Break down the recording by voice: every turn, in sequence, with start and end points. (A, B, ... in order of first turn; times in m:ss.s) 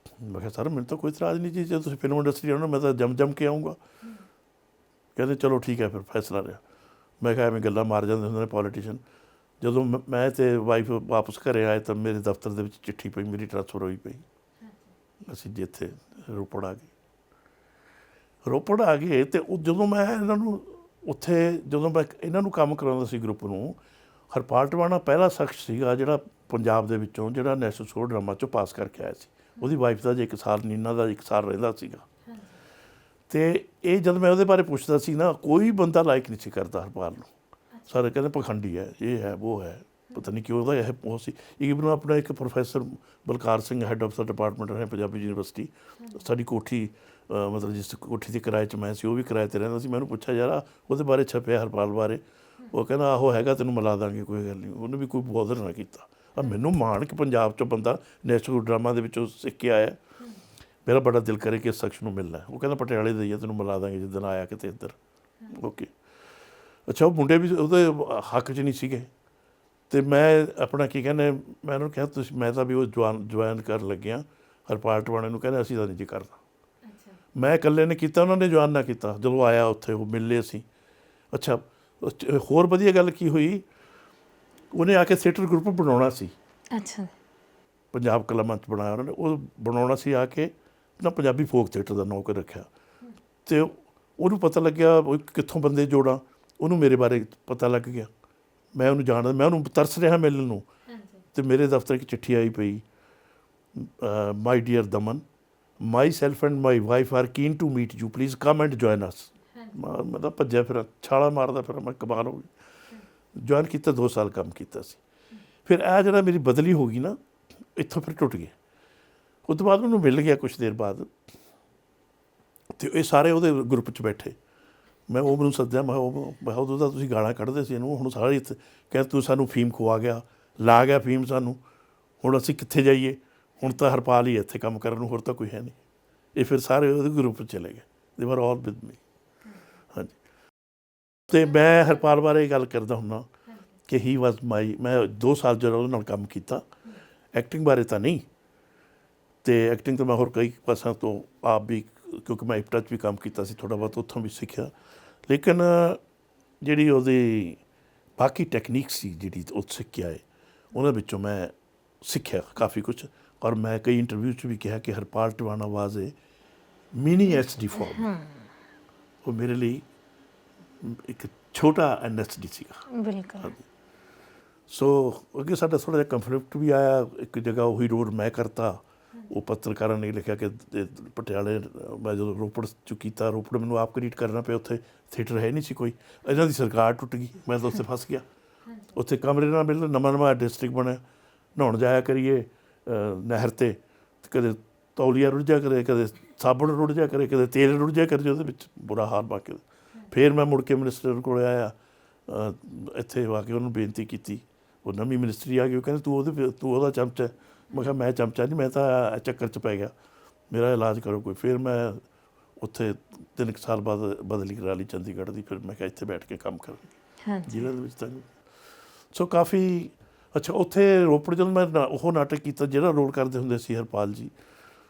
0:00.2-0:03.8 A
0:04.0-0:04.3 B
0:05.2-0:06.6 A
0:07.2-0:09.0 A
0:09.6-0:14.2 A
0:14.6-0:14.9 B
0:15.2-0:16.9 A
0:18.4-0:23.8 A
0:24.3-0:32.0 A
0:32.3-0:32.6 B
0:33.3-0:37.3 A
0:37.9-1:00.0 A
1:00.9-1:05.0 A
1:05.5-1:05.9 A
1:06.9-1:09.1 A
1:09.9-1:16.4 A
1:16.9-1:17.2 B
1:17.4-1:20.6 A
1:21.3-1:23.7 A
1:24.7-1:26.4 A
1:26.7-1:27.1 B
1:27.9-1:32.7 A
1:33.5-1:38.1 A
1:38.8-1:40.7 A
1:40.9-1:41.2 B
1:41.3-1:42.8 A
1:43.8-1:45.2 A
1:45.8-1:52.5 A
1:53.4-1:55.0 A
1:55.6-1:57.2 A
1:57.8-1:58.6 A
1:59.5-2:01.1 A
2:02.8-2:04.4 A
2:05.1-2:11.6 A
2:12.2-2:15.8 A
2:16.4-2:19.0 A
2:21.3-2:23.3 A
2:23.9-2:26.7 A
2:27.3-2:28.2 A
2:29.4-2:34.7 A
2:35.3-2:36.0 A
2:36.6-2:37.6 A
2:38.2-2:46.2 A
2:46.9-2:48.1 A
2:47.9-2:48.4 B
2:49.2-2:49.8 A
2:50.8-2:52.8 A
2:52.9-2:53.6 B
2:54.7-3:08.2 A
3:08.7-3:09.0 B
3:08.9-3:11.0 A
3:11.6-3:21.7 A
3:22.3-3:29.9 A
3:30.5-3:32.0 A
3:32.6-3:36.9 A
3:37.3-3:37.7 B
3:37.5-3:38.3 A
3:39.1-3:44.3 A